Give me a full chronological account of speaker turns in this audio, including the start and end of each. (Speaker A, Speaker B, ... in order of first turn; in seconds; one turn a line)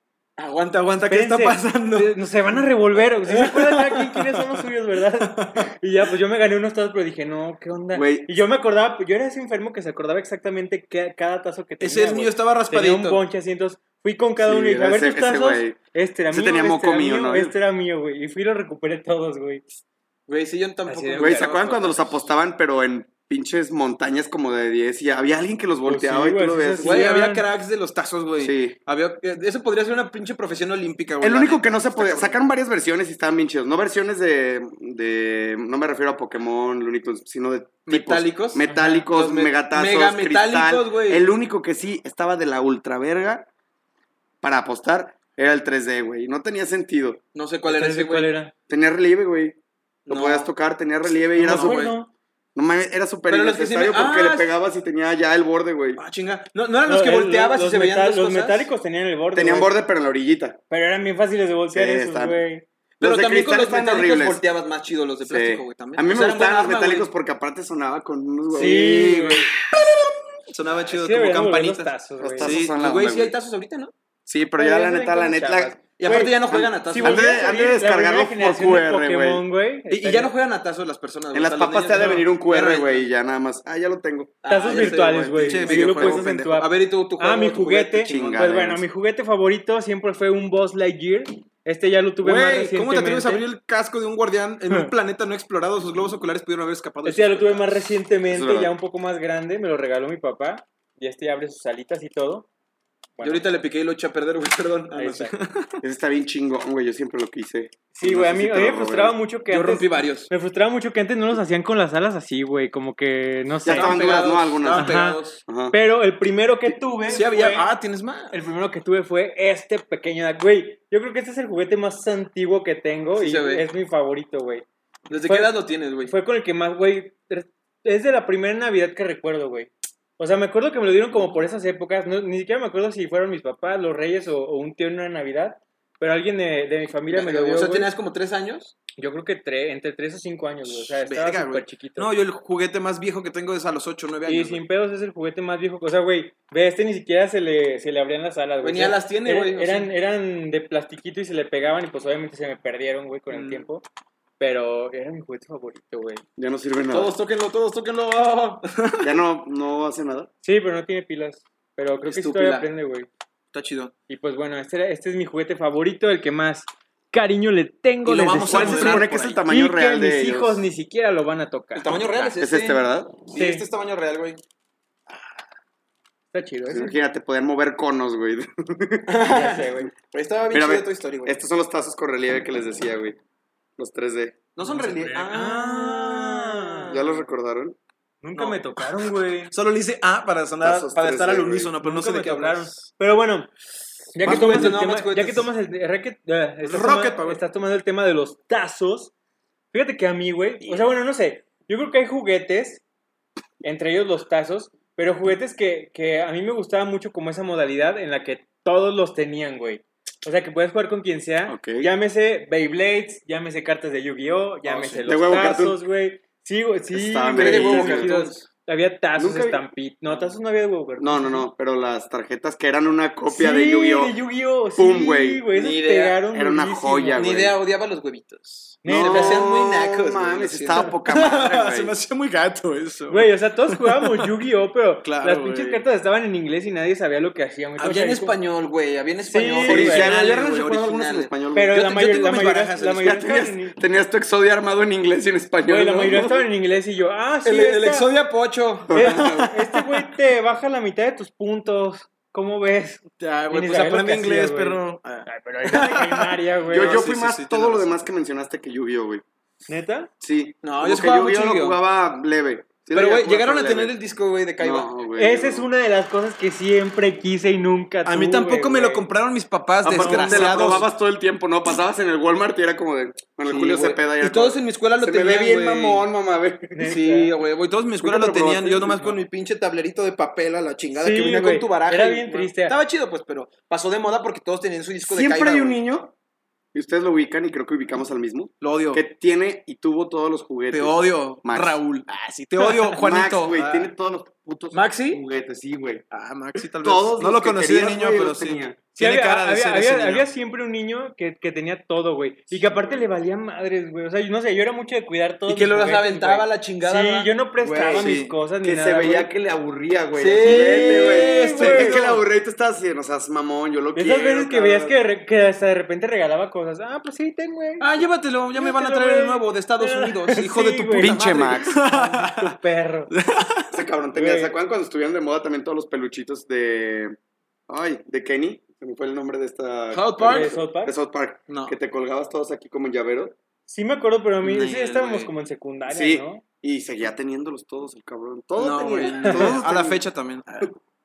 Speaker A: 0.4-2.6
Speaker B: 1.1-19.6
Speaker A: 3.2-4.6
Speaker A: 5.2-5.6
Speaker C: 7.9-8.3
Speaker A: 11.8-13.2
Speaker C: 14.4-15.8
Speaker C: 16.3-17.5
Speaker A: 20.3-22.3
Speaker B: 20.9-21.5
Speaker C: 21.2-27.1
Speaker B: 25.9-27.4
Speaker A: 26.8-32.4
Speaker C: 28.4-28.7
Speaker C: 31.2-43.5
Speaker A: 37.9-41.3
Speaker B: 38.7-39.1
Speaker C: 44.4-47.2
Speaker A: 47.3-48.3
Speaker B: 47.7-48.5
Speaker C: 48.7-49.5
Speaker A: 50.1-50.5
Speaker C: 50.1-51.9
Speaker B: 51.4-52.1
Speaker A: 51.4-52.0
Speaker C: 52.5-56.0
Speaker A: 53.3-54.5
Speaker A: 56.0-58.7
Speaker B: 56.9-59.7
Speaker C: 59.3-60.6
Speaker B: 60.7-62.6
Speaker C: 61.7-62.4
Speaker C: 63.0-64.4
Speaker A: 63.0-67.1
Speaker C: 65.2-70.2
Speaker A: 68.5-69.0
Speaker B: 68.5-69.5
Speaker A: 70.5-73.9
Speaker B: 70.9-72.6
Speaker C: 72.2-73.3
Speaker C: 74.2-75.8
Speaker B: 74.6-80.3
Speaker A: 76.0-77.4
Speaker C: 76.5-79.4
Speaker A: 79.9-83.1
Speaker C: 81.3-86.2
Speaker B: 81.9-82.2
Speaker A: 84.4-88.5
Speaker B: 84.5-93.5
Speaker C: 88.0-88.8
Speaker A: 92.2-97.7
Speaker B: 97.0-102.5
Speaker C: 98.3-98.7
Speaker B: 103.2-103.4
Speaker A: 103.2-105.8
Speaker B: 104.9-105.3
Speaker C: 105.8-109.2
Speaker B: 107.9-114.0
Speaker A: 109.5-110.3
Speaker C: 113.6-115.7
Speaker A: 113.7-115.4
Speaker B: 114.7-117.7
Speaker A: 117.1-118.3
Speaker B: 118.3-124.6
Speaker A: 123.1-123.6
Speaker A: 125.1-126.1
Speaker B: 125.2-137.9
Speaker A: 131.1-131.4
Speaker A: 137.1-138.7
Speaker B: 139.0-142.1
Speaker A: 140.6-144.6
Speaker B: 144.2-153.8
Speaker A: 148.6-149.9
Speaker A: 153.3-153.6
Speaker B: 154.4-156.2
Speaker C: 156.4-157.2
Speaker A: 156.9-159.1
Speaker C: 159.0-160.3
Speaker B: 160.4-163.1
Speaker A: 162.0-162.7
Speaker A: 163.5-163.9
Speaker B: 164.1-172.3
Speaker A: 168.0-169.4
Speaker C: 168.5-170.7
Speaker A: 171.7-174.4
Speaker C: 172.2-173.2
Speaker B: 173.3-173.6
Speaker B: 176.3-177.0
Speaker C: 176.7-179.3
Speaker A: 179.1-181.4
Speaker B: 179.3-179.9
Speaker C: 180.5-183.2
Speaker C: 183.8-184.4
Speaker A: 184.6-187.2
Speaker B: 184.6-186.9
Speaker C: 186.9-187.8
Speaker B: 188.2-189.5
Speaker A: 188.3-188.9
Speaker A: 189.5-192.9
Speaker C: 190.6-191.7
Speaker B: 191.8-193.5
Speaker B: 194.1-199.1
Speaker A: 194.2-195.5
Speaker C: 194.2-194.8
Speaker A: 196.6-197.4
Speaker B: 199.7-202.8
Speaker B: 203.6-221.5
Speaker C: 211.5-211.9
Speaker A: 214.7-215.4
Speaker C: 215.1-215.8
Speaker C: 216.9-218.2
Speaker A: 217.3-218.4
Speaker C: 219.2-219.6
Speaker C: 221.0-224.2
Speaker B: 223.3-227.2
Speaker C: 224.8-227.6
Speaker A: 225.6-226.1
Speaker A: 227.2-234.3
Speaker B: 228.8-229.5
Speaker C: 228.8-231.9
Speaker B: 233.1-238.3
Speaker A: 235.0-235.8
Speaker A: 237.8-243.1
Speaker B: 239.2-240.1
Speaker C: 239.6-241.8
Speaker B: 241.5-243.8
Speaker C: 243.0-246.4
Speaker B: 245.7-248.1
Speaker A: 247.4-250.0
Speaker C: 248.9-249.5
Speaker B: 248.9-257.1
Speaker A: 253.2-257.9
Speaker C: 256.7-259.2
Speaker B: 259.7-260.1
Speaker C: 260.2-263.9
Speaker A: 260.6-261.8
Speaker A: 262.9-264.9
Speaker C: 264.6-265.7
Speaker B: 265.2-269.1
Speaker A: 268.1-270.9
Speaker C: 269.8-277.0
Speaker B: 270.0-270.9
Speaker A: 273.4-276.0
Speaker B: 276.7-277.3
Speaker A: 276.8-285.8
Speaker C: 278.0-279.1
Speaker B: 280.9-282.7
Speaker C: 285.1-286.1
Speaker C: 286.7-291.8
Speaker A: 288.6-289.0
Speaker A: 290.7-293.9
Speaker C: 292.8-296.0
Speaker A: 294.7-295.2
Speaker A: 296.1-300.3
Speaker C: 296.6-298.8
Speaker B: 299.0-309.3
Speaker A: 305.5-307.3
Speaker C: 307.6-315.0
Speaker A: 307.9-308.3
Speaker A: 310.2-312.2
Speaker B: 310.4-312.0
Speaker B: 313.9-318.0
Speaker A: 317.8-322.6
Speaker B: 318.5-323.1
Speaker C: 321.0-321.8
Speaker A: 323.1-323.7
Speaker C: 323.7-327.1
Speaker B: 324.1-324.5
Speaker C: 327.7-333.3
Speaker A: 329.9-330.5
Speaker B: 330.2-330.9
Speaker A: 331.5-331.7
Speaker B: 333.7-336.4
Speaker A: 334.4-335.3
Speaker C: 335.9-340.0
Speaker A: 338.6-340.7
Speaker B: 339.2-339.5